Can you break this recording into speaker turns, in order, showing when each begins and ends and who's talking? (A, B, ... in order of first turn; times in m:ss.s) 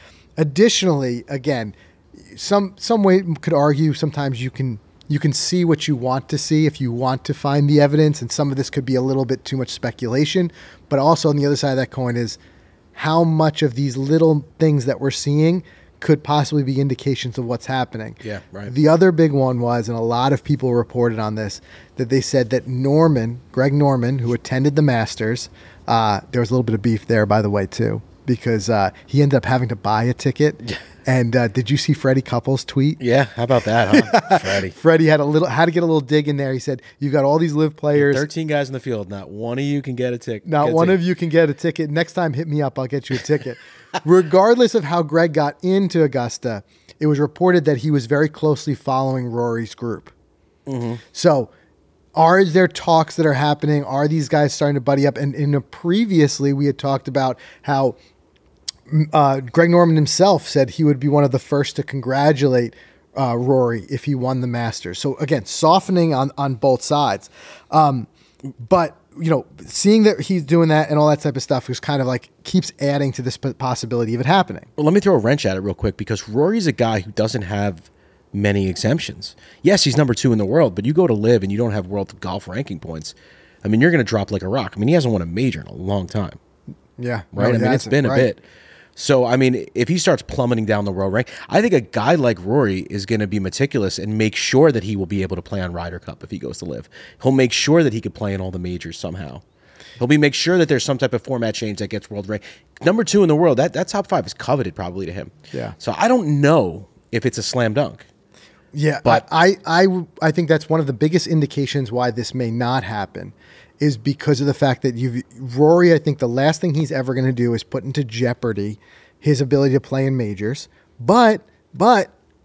0:00.4-0:12.4 A
0:12.9-0:33.0 A
0:18.2-0:18.7 B
0:33.0-0:34.7 B
0:33.9-0:38.2 A
0:37.9-0:41.0 B
0:40.4-0:50.1 A
0:50.7-0:51.0 B
0:51.1-0:51.5 A
0:52.2-0:57.9 A
0:58.9-1:08.1 A
1:08.6-1:14.7 A
1:14.8-1:26.4 B
1:27.0-1:28.3 A
1:27.3-1:28.4 B
1:29.0-1:39.4 B
1:40.0-1:48.0 B
1:48.7-2:02.1 A